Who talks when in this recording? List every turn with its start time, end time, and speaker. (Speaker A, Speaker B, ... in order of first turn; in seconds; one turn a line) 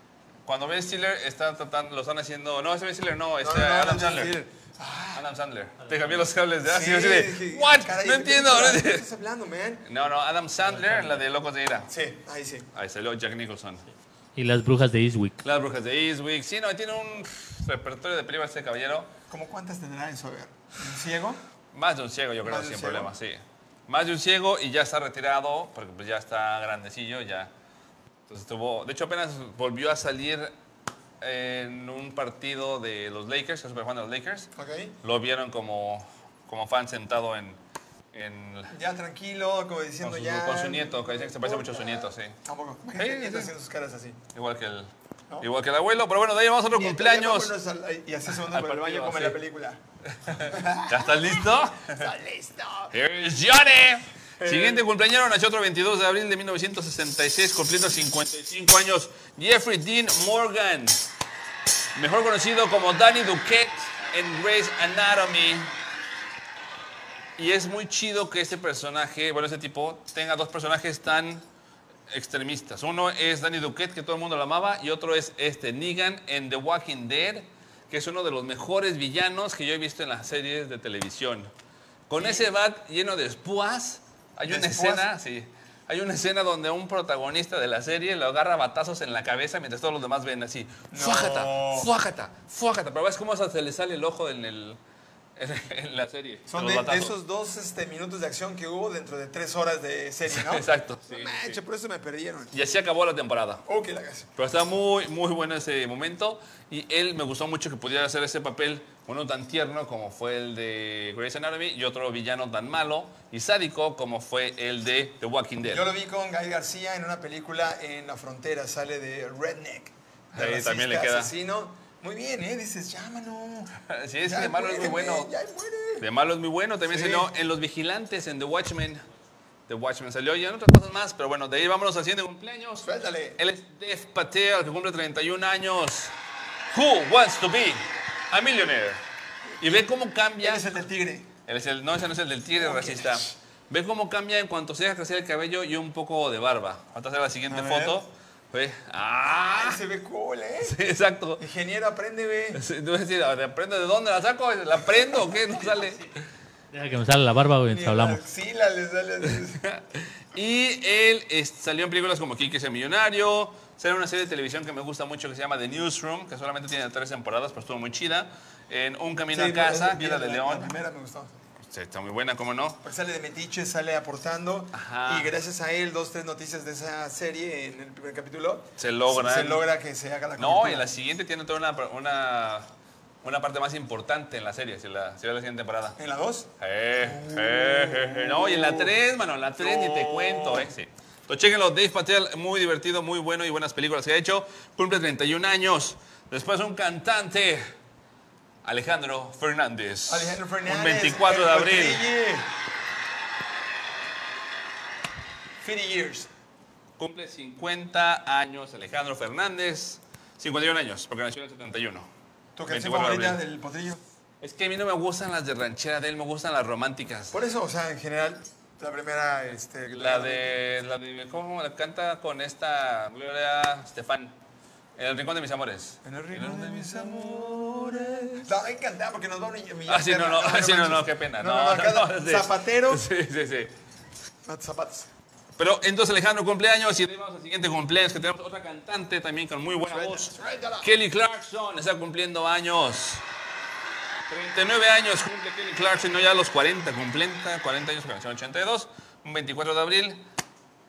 Speaker A: 0.5-4.5
Speaker B: 3.4-5.2
Speaker A: 5.1-9.1
Speaker C: 5.9-6.2
Speaker B: 6.6-9.8
Speaker A: 9.8-11.9
Speaker C: 10.7-11.2
Speaker B: 11.9-12.7
Speaker A: 12.7-13.8
Speaker C: 14.3-15.4
Speaker A: 15.4-19.1
Speaker B: 19.3-21.4
Speaker A: 21.7-27.5
Speaker B: 22.4-23.1
Speaker A: 28.3-30.5
Speaker A: 31.2-34.5
Speaker B: 34.5-34.9
Speaker A: 35.0-37.6
Speaker A: 38.1-38.7
Speaker B: 38.7-44.2
Speaker A: 40.0-42.4
Speaker A: 42.9-43.5
Speaker A: 44.3-44.9
Speaker A: 45.4-47.5
Speaker B: 46.7-49.8
Speaker A: 48.3-49.4
Speaker A: 50.1-52.1
Speaker B: 50.4-52.9
Speaker A: 52.9-61.0
Speaker B: 54.4-54.9
Speaker A: 61.9-65.7
Speaker A: 67.4-71.4
Speaker A: 72.1-81.5
Speaker A: 82.1-94.8
Speaker B: 82.2-82.5
Speaker B: 84.5-85.1
Speaker B: 90.9-91.9
Speaker A: 95.3-97.1
Speaker B: 96.5-102.5
Speaker A: 100.3-101.6
Speaker A: 102.5-103.6
Speaker B: 103.6-104.3
Speaker A: 104.3-115.8
Speaker B: 115.6-126.1
Speaker A: 120.3-121.3
Speaker A: 123.8-125.3
Speaker A: 126.0-129.0
Speaker B: 126.8-127.3
Speaker A: 129.7-136.1
Speaker B: 132.8-133.4
Speaker A: 136.7-139.0
Speaker B: 139.6-139.9
Speaker A: 139.6-140.7
Speaker B: 140.4-141.3
Speaker A: 141.5-149.8
Speaker B: 142.6-143.3
Speaker B: 147.5-148.0
Speaker B: 149.5-150.8
Speaker A: 150.6-151.4
Speaker B: 151.4-152.6
Speaker A: 152.5-156.1
Speaker C: 156.7-158.2
Speaker B: 157.7-159.6
Speaker A: 159.5-170.8
Speaker B: 169.3-171.4
Speaker A: 171.6-172.8
Speaker B: 172.8-180.9
Speaker A: 174.7-175.3
Speaker A: 178.8-179.7
Speaker A: 180.4-182.7
Speaker A: 183.2-186.0
Speaker B: 186.0-189.0
Speaker A: 186.6-197.6
Speaker B: 189.5-190.7
Speaker A: 198.6-202.0
Speaker B: 200.1-202.5
Speaker B: 205.6-206.3
Speaker A: 207.0-212.1
Speaker B: 212.6-214.0
Speaker A: 212.7-213.4
Speaker A: 214.4-217.4
Speaker B: 217.3-220.6
Speaker A: 219.9-224.3
Speaker A: 225.0-228.5
Speaker B: 226.0-233.1
Speaker A: 229.9-233.7
Speaker B: 234.4-235.1
Speaker A: 235.6-243.2
Speaker B: 239.8-240.9
Speaker A: 244.3-250.2